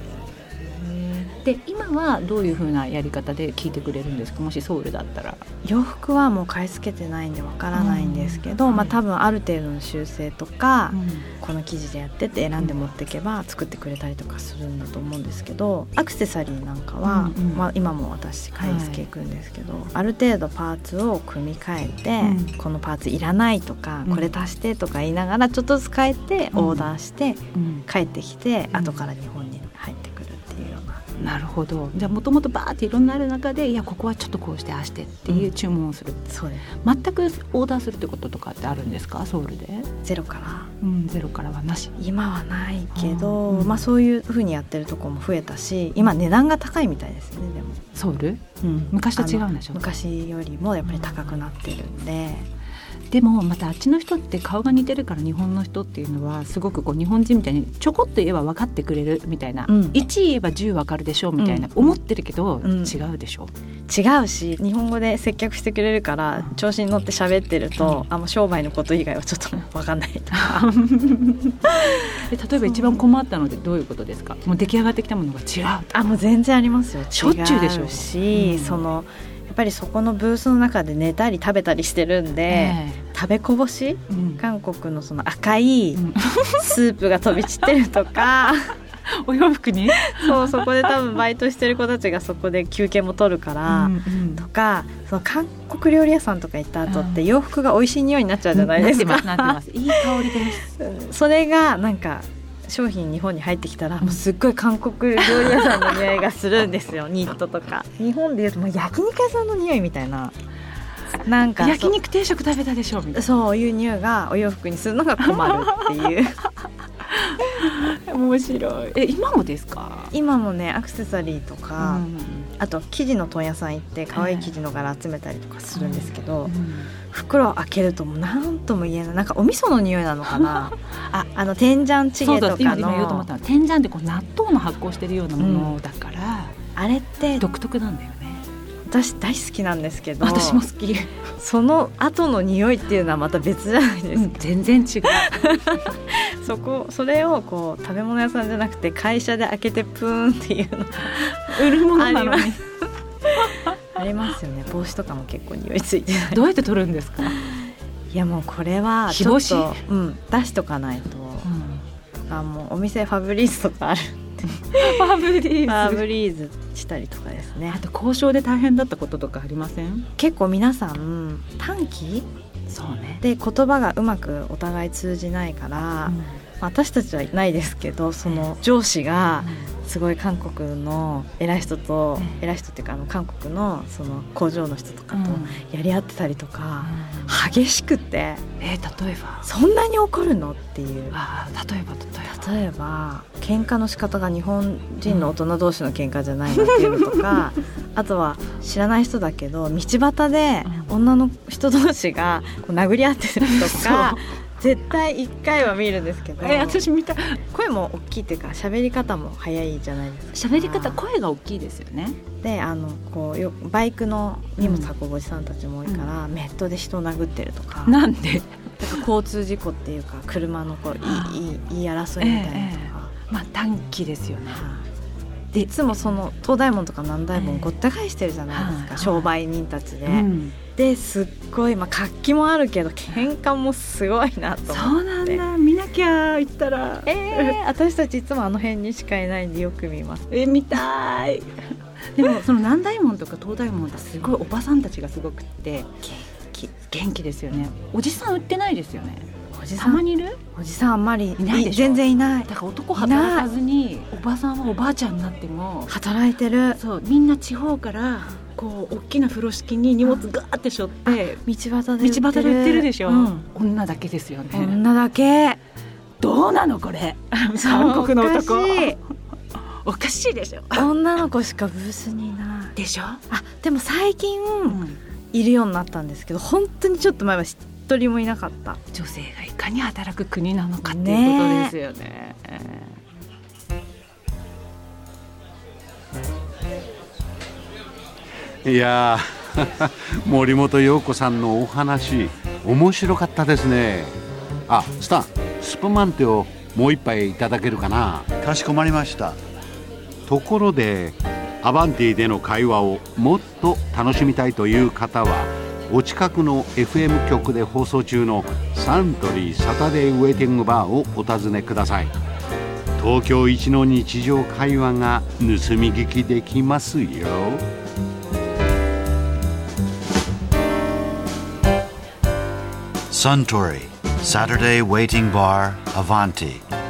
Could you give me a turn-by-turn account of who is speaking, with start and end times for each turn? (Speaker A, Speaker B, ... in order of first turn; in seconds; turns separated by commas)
Speaker A: 0.6-1.3, Speaker B: 1.4-5.4, Speaker A: 5.6-31.0, Speaker B: 7.7-8.9, Speaker B: 10.9-11.3, Speaker B: 17.0-17.6, Speaker B: 18.6-19.0, Speaker B: 22.2-22.5, Speaker B: 26.5-26.9, Speaker B: 27.5-27.8, Speaker B: 28.7-29.0, Speaker B: 31.2-36.2, Speaker A: 36.3-36.7, Speaker B: 36.8-39.9, Speaker A: 40.0-40.7, Speaker B: 40.8-41.9, Speaker A: 42.0-47.8, Speaker B: 42.9-43.8, Speaker B: 47.9-49.8, Speaker A: 48.6-52.5, Speaker B: 50.9-51.2, Speaker B: 53.1-63.5, Speaker A: 59.6-60.0, Speaker A: 61.4-62.0, Speaker A: 62.6-63.0, Speaker A: 63.9-70.7, Speaker B: 67.8-68.0, Speaker B: 70.3-76.1, Speaker A: 72.6-73.0, Speaker A: 75.9-86.0, Speaker B: 77.1-78.8, Speaker B: 82.5-83.0, Speaker B: 84.1-84.4, Speaker B: 86.0-86.7, Speaker A: 86.6-88.7, Speaker B: 89.1-90.9, Speaker A: 90.0-99.6, Speaker B: 93.7-94.4, Speaker B: 96.9-97.2, Speaker B: 98.5-100.6, Speaker A: 100.5-110.3, Speaker A: 111.2-112.0, Speaker B: 111.6-113.2, Speaker A: 113.1-116.4, Speaker B: 117.2-120.1, Speaker A: 120.1-122.0, Speaker B: 121.8-122.5, Speaker A: 122.6-126.5, Speaker B: 124.1-124.5, Speaker B: 125.7-126.9, Speaker A: 127.1-133.3, Speaker B: 132.2-136.5, Speaker A: 135.4-135.8, Speaker A: 136.8-137.4, Speaker B: 137.4-138.4, Speaker A: 138.9-140.6, Speaker B: 140.2-141.1, Speaker A: 141.4-144.4, Speaker B: 144.1-145.3, Speaker A: 145.0-152.6, Speaker B: 151.1-152.6, Speaker A: 153.3-156.4, Speaker B: 156.3-157.4, Speaker A: 158.1-161.5, Speaker B: 159.1-159.8, Speaker B: 161.4-161.8, Speaker A: 162.2-167.8, Speaker B: 164.7-166.0, Speaker B: 167.7-170.1, Speaker A: 170.2-172.3, Speaker B: 172.7-173.2, Speaker A: 173.2-188.4, Speaker B: 176.1-176.3, Speaker B: 185.1-185.5, Speaker B: 186.8-187.3, Speaker B: 188.6-189.4, Speaker A: 189.4-191.2, Speaker B: 191.1-192.5, Speaker A: 192.3-206.8, Speaker B: 196.6-197.4, Speaker B: 200.7-200.9, Speaker B: 203.4-204.2, Speaker B: 206.4-207.4, Speaker A: 207.5-211.0, Speaker B: 210.3-212.2, Speaker A: 212.4-218.0, Speaker B: 214.6-214.9, Speaker B: 217.8-218.5, Speaker A: 218.8-223.1, Speaker B: 221.0-221.4, Speaker B: 222.2-224.6, Speaker A: 224.5-224.8, Speaker A: 225.5-235.4, Speaker B: 227.3-227.7, Speaker B: 228.5-229.3, Speaker B: 230.1-230.6, Speaker B: 234.7-237.5, Speaker A: 237.0-240.3, Speaker B: 240.3-241.5, Speaker B: 242.2-245.9, Speaker A: 246.0-246.7, Speaker B: 246.9-249.3, Speaker A: 249.5-250.0, Speaker B: 249.8-250.4, Speaker A: 250.5-253.5, Speaker B: 251.4-255.9, Speaker A: 255.9-256.8, Speaker B: 256.7-261.4, Speaker A: 261.1-263.5, Speaker B: 262.0-264.8, Speaker A: 264.5-265.6, Speaker B: 266.2-269.0, Speaker A: 267.5-269.0, Speaker B: 269.8-270.9, Speaker A: 270.7-272.8, Speaker B: 272.8-273.2, Speaker A: 273.3-274.8, Speaker B: 274.7-275.0, Speaker A: 275.3-278.8, Speaker B: 278.9-282.9, Speaker A: 280.8-281.7, Speaker C: 288.6-294.1, Speaker C: 294.7-298.3, Speaker D: 298.4-299.4, Speaker C: 300.3-312.1, Speaker C: 313.0-317.6, Speaker D: 323.1-326.6